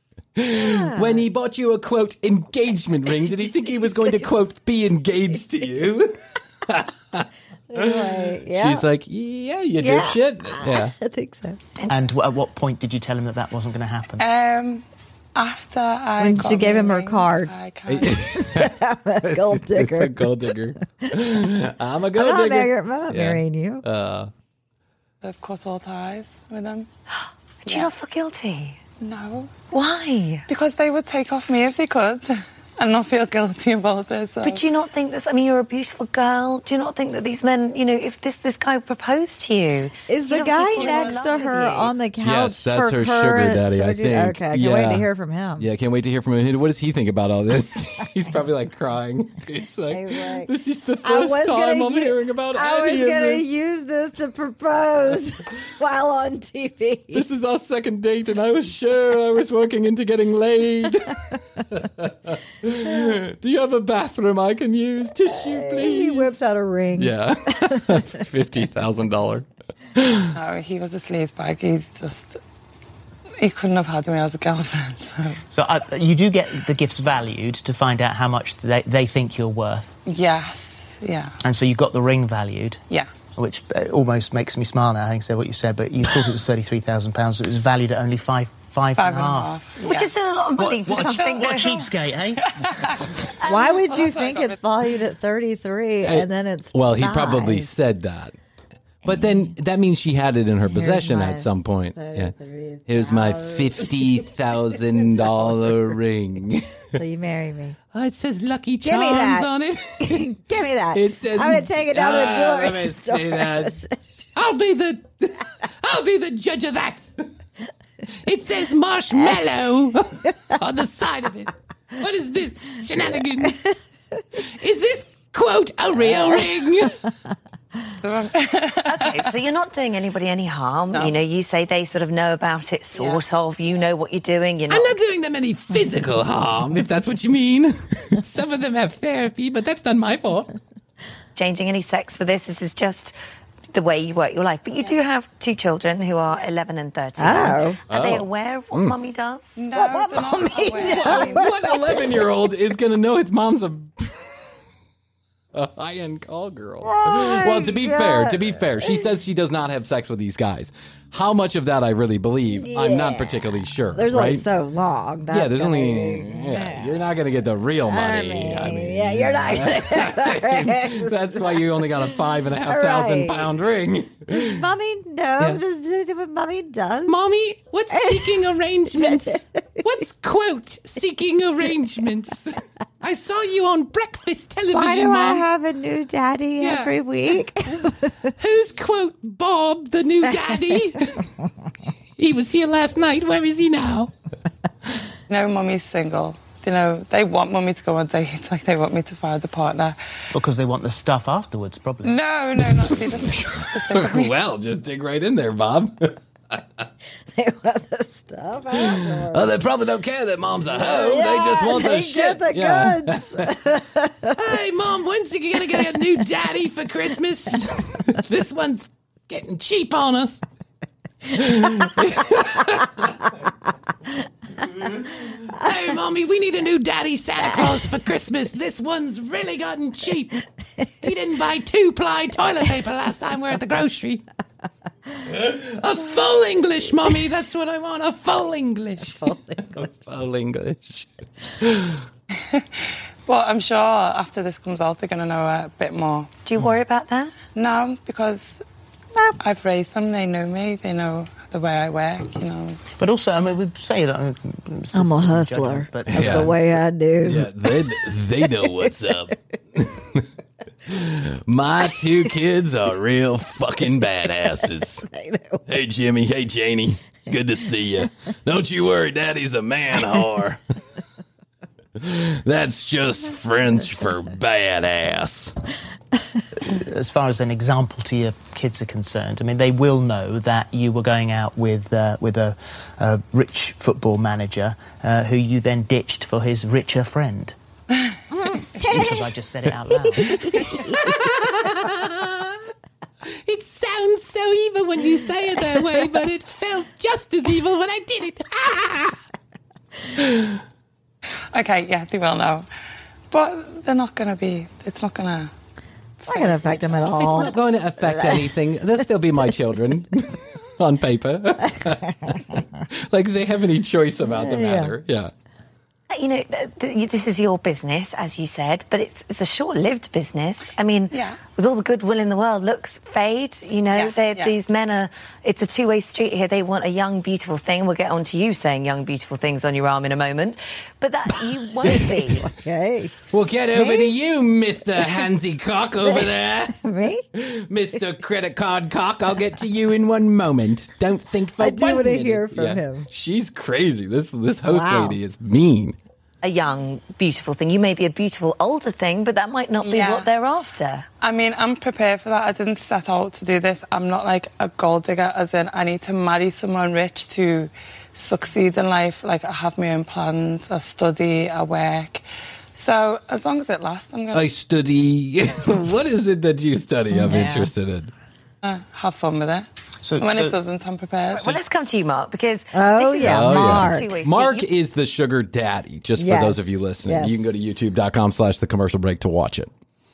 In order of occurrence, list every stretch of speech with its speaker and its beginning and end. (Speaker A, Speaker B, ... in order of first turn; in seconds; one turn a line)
Speaker A: 0.4-10.9
Speaker B: 0.6-1.2
Speaker B: 3.8-4.2
Speaker B: 7.7-8.8
Speaker B: 9.8-11.6
Speaker C: 11.9-14.3
Speaker D: 14.2-18.2
Speaker B: 16.2-17.5
Speaker A: 17.9-24.3
Speaker B: 18.1-20.5
Speaker B: 22.2-23.8
Speaker D: 25.2-26.9
Speaker E: 27.6-28.8
Speaker D: 29.0-29.7
Speaker E: 29.7-30.4
Speaker D: 30.5-34.6
Speaker E: 34.4-41.9
Speaker B: 40.1-45.7
Speaker D: 40.5-41.4
Speaker A: 42.2-45.1
Speaker A: 45.6-53.5
Speaker B: 49.9-50.5
Speaker B: 51.0-57.2
Speaker A: 57.1-66.3
Speaker B: 65.4-67.9
Speaker A: 67.0-70.3
Speaker D: 70.3-72.4
Speaker D: 73.4-75.4
Speaker C: 75.5-80.0
Speaker D: 80.0-81.4
Speaker C: 81.4-89.6
Speaker D: 89.0-90.1
Speaker E: 89.8-91.9
Speaker C: 90.6-92.5
Speaker D: 91.0-91.7
Speaker D: 92.4-94.6
Speaker B: 93.4-97.7
Speaker A: 96.0-98.3
Speaker A: 99.0-102.3
Speaker B: 100.7-104.3
Speaker A: 102.9-107.0
Speaker B: 105.2-105.5
Speaker B: 107.0-107.8
Speaker A: 107.9-110.4
Speaker B: 108.8-114.0
Speaker A: 110.9-113.8
Speaker A: 114.3-117.2
Speaker A: 118.2-123.6
Speaker A: 124.6-127.0
Speaker D: 128.0-129.3
Speaker E: 128.9-135.0
Speaker D: 130.9-131.2
Speaker D: 132.9-133.2
Speaker A: 134.7-140.5
Speaker E: 141.4-143.1
Speaker E: 143.7-149.6
Speaker B: 147.2-147.8
Speaker A: 147.9-149.0
Speaker D: 149.6-151.5
Speaker B: 149.7-152.2
Speaker A: 150.9-154.2
Speaker A: 155.5-164.4
Speaker B: 156.8-159.1
Speaker B: 162.6-163.4
Speaker B: 163.9-166.9
Speaker A: 165.3-174.6
Speaker B: 167.9-171.6
Speaker B: 172.6-173.5
Speaker B: 174.3-177.2
Speaker A: 177.1-185.4
Speaker B: 177.9-179.8
Speaker B: 184.7-188.1
Speaker A: 186.6-186.9
Speaker A: 188.4-191.2
Speaker A: 192.2-194.1
Speaker D: 195.3-200.0
Speaker C: 200.3-202.2
Speaker D: 202.0-204.3
Speaker A: 203.3-206.6
Speaker B: 207.3-209.5
Speaker A: 208.7-213.6
Speaker B: 210.7-214.3
Speaker A: 214.3-220.4
Speaker A: 221.3-223.3
Speaker A: 224.6-230.4
Speaker A: 231.0-234.2
Speaker A: 235.3-242.1
Speaker B: 239.1-239.8
Speaker D: 242.5-246.3
Speaker E: 246.4-247.3
Speaker D: 247.6-248.6
Speaker D: 249.4-252.8
Speaker C: 253.0-256.6
Speaker B: 254.9-257.5
Speaker A: 256.1-256.5
Speaker A: 257.2-260.2
Speaker A: 260.9-265.1
Speaker B: 265.1-265.6
Speaker A: 265.7-270.6
Speaker A: 272.0-275.6
Speaker C: 276.7-287.6
Speaker B: 288.4-289.2
Speaker C: 288.8-290.7
Speaker B: 290.2-291.1
Speaker A: 290.7-292.6
Speaker A: 293.4-299.2
Speaker A: 300.2-300.6
Speaker D: 301.5-302.7
Speaker D: 303.3-305.5
Speaker D: 306.2-307.3
Speaker B: 306.2-308.5
Speaker A: 307.2-315.3
Speaker B: 314.4-314.9
Speaker E: 316.1-332.5
Speaker D: 321.1-321.4
Speaker D: 323.9-324.5
Speaker A: 331.8-332.4
Speaker B: 332.1-333.2
Speaker A: 333.3-336.8
Speaker B: 333.7-334.1
Speaker B: 336.0-337.2
Speaker A: 337.3-345.9
Speaker B: 341.6-343.1
Speaker B: 344.7-345.2
Speaker E: 346.4-351.1
Speaker D: 349.8-350.3
Speaker D: 351.2-362.2
Speaker D: 362.7-364.5
Speaker A: 364.3-368.1
Speaker B: 367.1-367.7
Speaker D: 368.6-369.7
Speaker C: 370.0-370.6
Speaker D: 370.2-371.6
Speaker E: 371.3-374.7
Speaker B: 372.7-374.1
Speaker A: 373.2-379.7
Speaker B: 376.2-377.5